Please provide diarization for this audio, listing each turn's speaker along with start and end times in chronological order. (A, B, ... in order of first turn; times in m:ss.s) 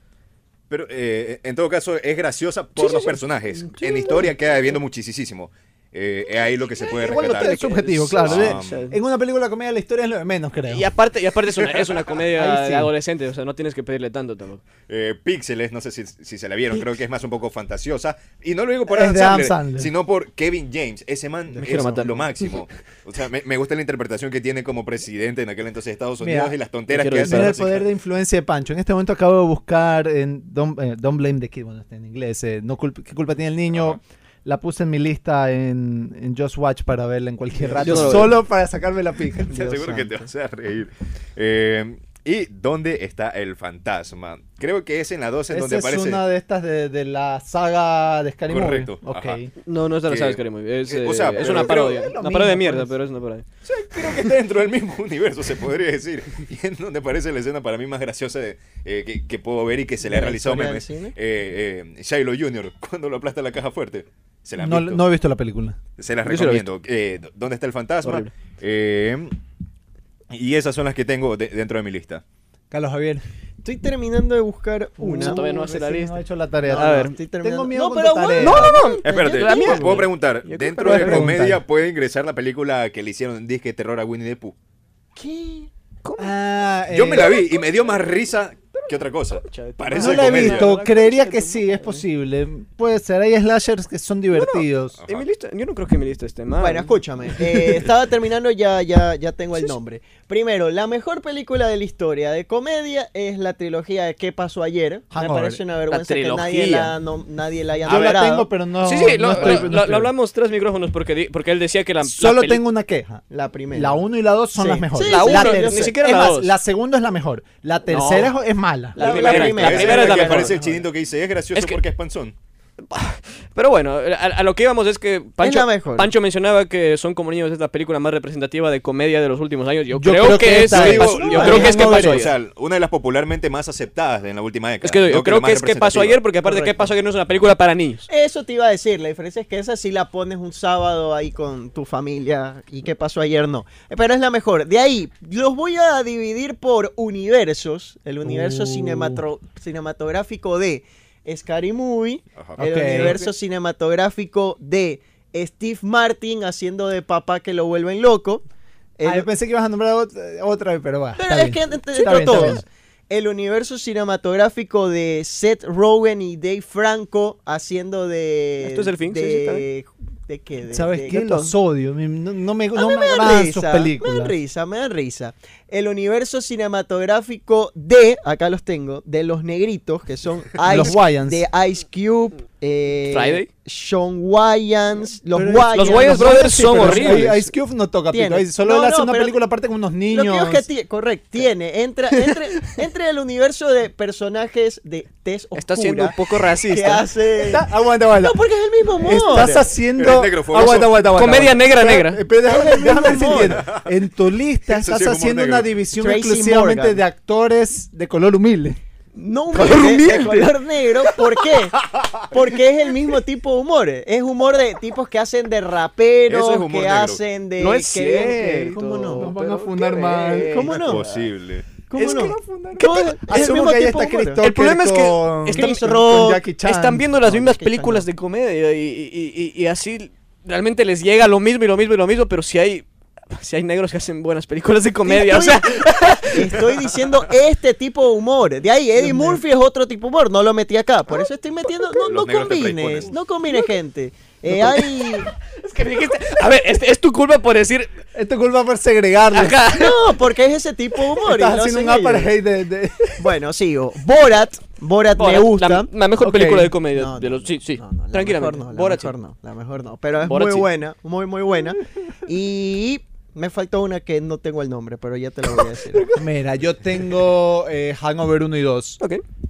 0:00.7-0:08.8 A
0:02.8-0:04.3 B
0:06.9-0:10.9 C
0:07.1-0:09.0 B
0:10.7-0:14.6 B
0:12.3-0:12.9 C
0:14.9-0:27.9 A
0:18.9-0:19.9 C
0:21.6-0:22.2 B
0:21.7-0:22.0 C
0:26.2-0:26.6 C
0:26.9-0:27.6 B
0:27.1-0:39.9 C
0:33.7-0:34.0 A
0:37.8-0:38.4 B
0:37.9-0:38.2 D
0:39.5-0:46.2 A
0:39.6-0:40.3 D
0:45.5-0:49.5 C
0:48.5-0:49.4 A
0:49.7-0:54.3 B
0:50.1-0:52.0 A
0:51.4-0:53.0 C
0:53.6-1:05.0 A
1:00.0-1:01.2 D
1:04.6-1:05.8 C
1:06.0-1:09.3 A
1:06.2-1:06.7 B
1:08.0-1:08.3 B
1:10.3-1:12.2 A
1:12.7-1:13.2 C
1:13.6-1:15.4 D
1:15.0-1:18.8 C
1:15.0-1:16.2 B
1:16.6-1:20.1 D
1:16.8-1:17.2 B
1:18.4-1:21.4 B
1:19.0-1:24.6 A
1:20.8-1:21.6 C
1:25.2-1:25.7 D
1:26.0-1:26.3 B
1:26.2-1:27.4 C
1:26.9-1:30.8 A
1:29.3-1:32.0 B
1:30.0-1:35.0 C
1:34.3-1:37.0 B
1:35.0-1:35.3 A
1:36.6-1:48.5 D
1:45.1-1:45.6 C
1:45.9-1:47.0 B
1:47.8-1:50.1 C
1:47.9-1:48.1 B
1:48.8-1:52.6 B
1:52.0-2:00.8 C
1:53.3-1:54.0 D
1:54.6-1:55.9 D
1:55.0-1:56.5 B
1:57.9-1:58.3 B
1:59.0-2:00.6 B
1:59.0-2:00.8 D
1:59.0-2:02.4 A
2:01.5-2:01.8 B
2:02.9-2:12.4 B
2:05.4-2:06.1 D
2:09.9-2:12.3 C
2:10.6-2:16.2 A
2:11.1-2:12.0 D
2:14.8-2:18.1 B
2:16.4-2:16.9 D
2:18.1-2:38.4 D
2:28.2-2:29.2 C
2:32.4-2:33.0 A
2:32.6-2:33.3 C
2:39.0-2:39.3 D
2:39.0-2:42.6 C
2:41.2-2:51.2 D
2:41.9-2:42.6 B
2:48.6-2:49.7 B
2:50.7-2:54.4 C
2:51.1-2:51.5 B
2:52.8-3:07.4 D
3:00.6-3:01.5 C
3:03.1-3:03.5 B
3:05.3-3:10.7 C
3:05.7-3:07.3 B
3:08.1-3:09.4 D
3:10.1-3:19.7 D
3:15.6-3:17.0 B
3:17.4-3:18.4 C
3:19.0-3:28.8 C
3:20.0-3:21.1 A
3:21.1-3:22.2 B
3:22.4-3:23.7 D
3:23.4-3:23.8 A
3:24.7-3:25.8 A
3:26.0-3:27.0 D
3:29.2-3:39.3 D
3:29.5-3:30.6 B
3:36.3-3:37.2 A
3:37.6-3:41.2 B
3:38.5-3:40.7 C
3:40.5-3:41.0 D
3:40.7-3:41.7 A
3:41.9-3:44.4 D
3:41.9-3:43.7 B
3:42.0-3:47.1 C
3:44.4-3:56.6 B
3:45.6-3:46.4 D
3:47.2-3:48.1 D
3:55.1-3:55.6 D
3:56.3-4:05.3 D
3:59.0-3:59.4 C
4:01.9-4:03.2 A
4:04.5-4:07.9 B
4:08.1-4:09.6 C
4:09.3-4:10.1 B
4:09.7-4:12.3 D
4:11.2-4:13.3 C
4:13.2-4:15.9 D
4:15.2-4:19.1 B
4:16.2-4:16.8 C
4:16.9-4:26.1 D
4:20.2-4:20.7 B
4:25.9-4:26.2 B
4:26.1-4:29.0 C